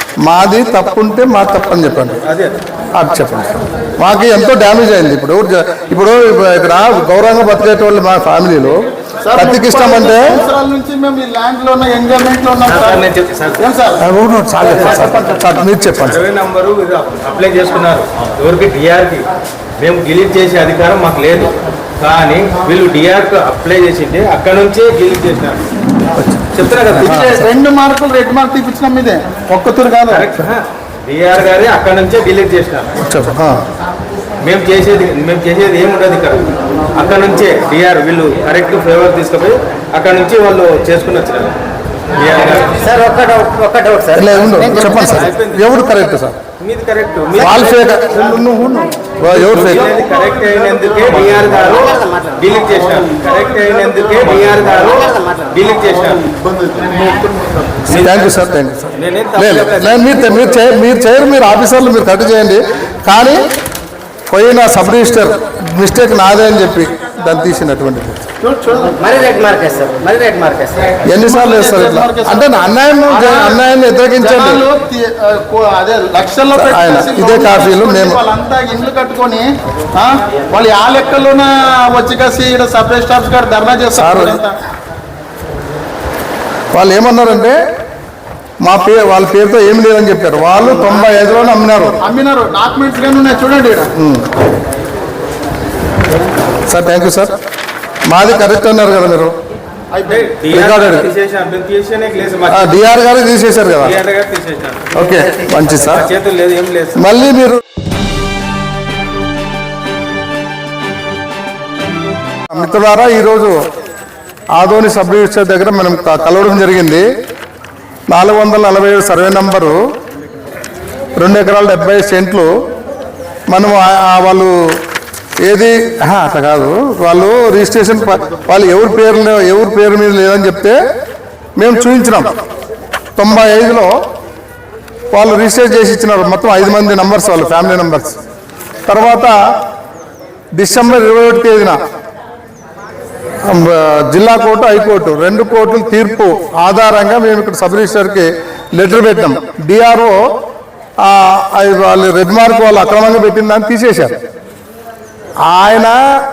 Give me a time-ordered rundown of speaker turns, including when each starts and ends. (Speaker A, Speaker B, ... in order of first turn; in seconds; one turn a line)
Speaker A: 0.2-2.2
Speaker B: 2.3-2.5
Speaker A: 3.0-8.8
Speaker C: 9.2-13.1
Speaker A: 9.3-10.3
Speaker B: 12.6-13.6
Speaker C: 13.6-14.0
Speaker A: 14.0-16.2
Speaker B: 14.7-15.2
Speaker B: 16.0-19.2
Speaker B: 19.8-25.6
Speaker A: 26.1-27.5
Speaker B: 26.5-27.2
Speaker C: 27.1-30.2
Speaker B: 30.1-32.9
Speaker A: 33.0-33.6
Speaker B: 34.4-41.5
Speaker B: 42.2-43.0
Speaker D: 42.8-45.0
Speaker A: 44.1-46.4
Speaker B: 44.7-45.6
Speaker B: 46.6-48.4
Speaker A: 47.3-49.9
Speaker B: 49.2-56.3
Speaker C: 50.4-51.0
Speaker D: 51.2-52.3
Speaker D: 54.4-55.5
Speaker C: 56.4-57.5
Speaker B: 57.9-58.3
Speaker A: 57.9-63.4
Speaker B: 59.0-60.2
Speaker A: 64.3-68.2
Speaker C: 68.4-69.0
Speaker D: 69.0-71.0
Speaker A: 71.0-74.6
Speaker C: 71.2-72.4
Speaker C: 73.1-73.6
Speaker C: 74.2-84.5
Speaker A: 76.5-78.2
Speaker A: 84.0-84.4
Speaker A: 86.7-87.5
Speaker A: 88.6-92.0
Speaker C: 92.0-93.9
Speaker A: 94.0-94.2
Speaker A: 96.7-97.3
Speaker A: 98.1-99.3
Speaker C: 99.9-100.3
Speaker B: 100.0-102.8
Speaker A: 100.5-101.1
Speaker A: 102.5-103.9
Speaker B: 103.8-104.9
Speaker A: 104.9-106.1
Speaker B: 105.9-107.1
Speaker A: 106.9-107.6
Speaker A: 112.5-113.5
Speaker A: 114.6-117.0
Speaker A: 118.1-119.8
Speaker A: 121.2-122.5
Speaker A: 123.5-124.5
Speaker A: 125.5-130.8
Speaker A: 131.6-132.3
Speaker A: 133.2-133.9
Speaker A: 135.1-138.2
Speaker A: 138.9-139.3
Speaker A: 140.6-141.8
Speaker A: 143.5-150.2
Speaker A: 151.0-154.2
Speaker A: 155.5-156.0